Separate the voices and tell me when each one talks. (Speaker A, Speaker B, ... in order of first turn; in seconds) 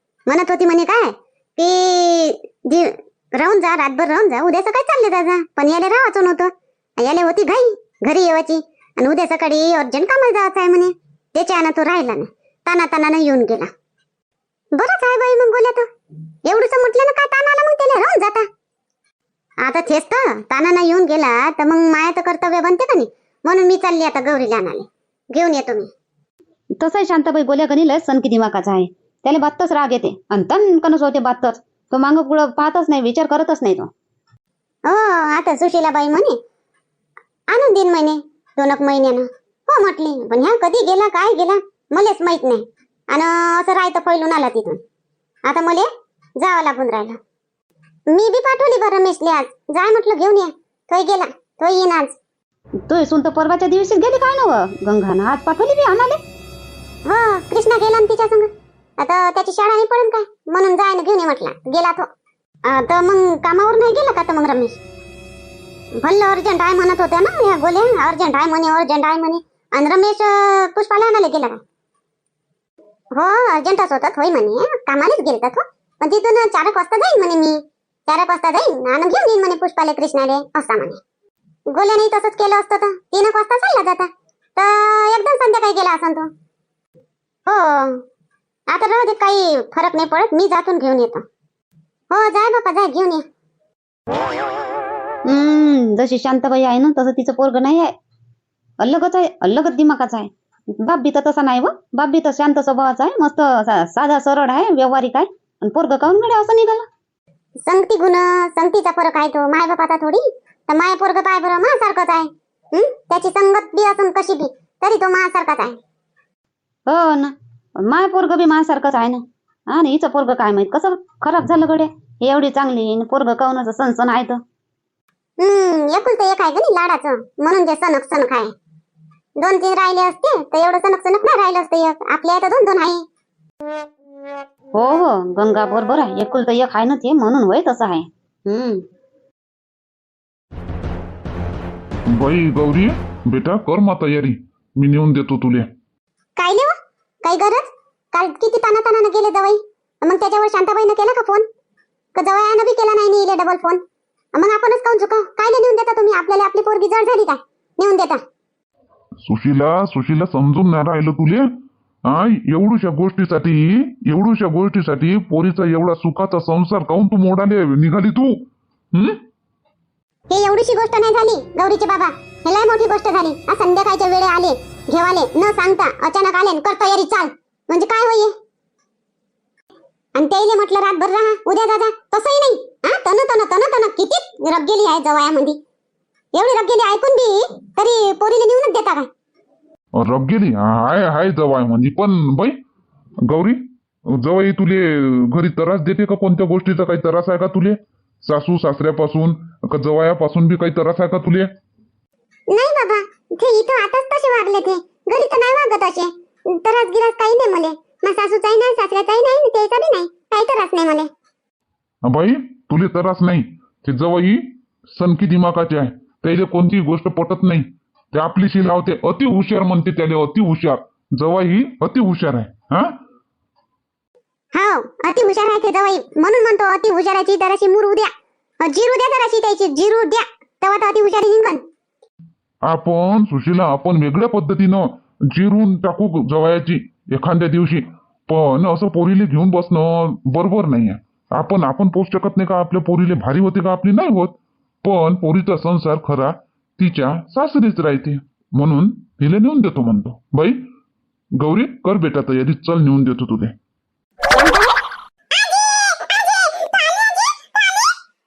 Speaker A: 0.3-13.7, 14.8-15.9, 16.4-18.5, 19.6-25.9, 34.9-36.4, 37.5-44.8, 45.5-47.2, 48.1-52.2, 57.1-62.1, 62.7-64.7, 66.0-71.6, 73.2-81.0, 81.7-86.3, 87.5-88.0, 88.7-91.2, 92.1-93.2, 107.6-115.8, 125.4-128.5, 129.4-133.0, 138.5-138.8, 146.4-151.5, 152.2-153.8, 154.3-158.2, 170.3-178.3, 180.2-185.6, 186.3-189.1, 202.5-211.1, 224.5-231.6, 254.3-254.8, 255.3-257.9
Speaker B: 26.8-33.9, 52.9-56.2, 95.3-97.9, 98.8-106.9, 116.9-124.4, 134.8-138.1
Speaker C: 142.1-145.7, 159.2-161.5, 162.1-169.2, 190.0-192.6, 193.2-201.5, 212.0-222.9, 232.7-250.6, 251.4-253.5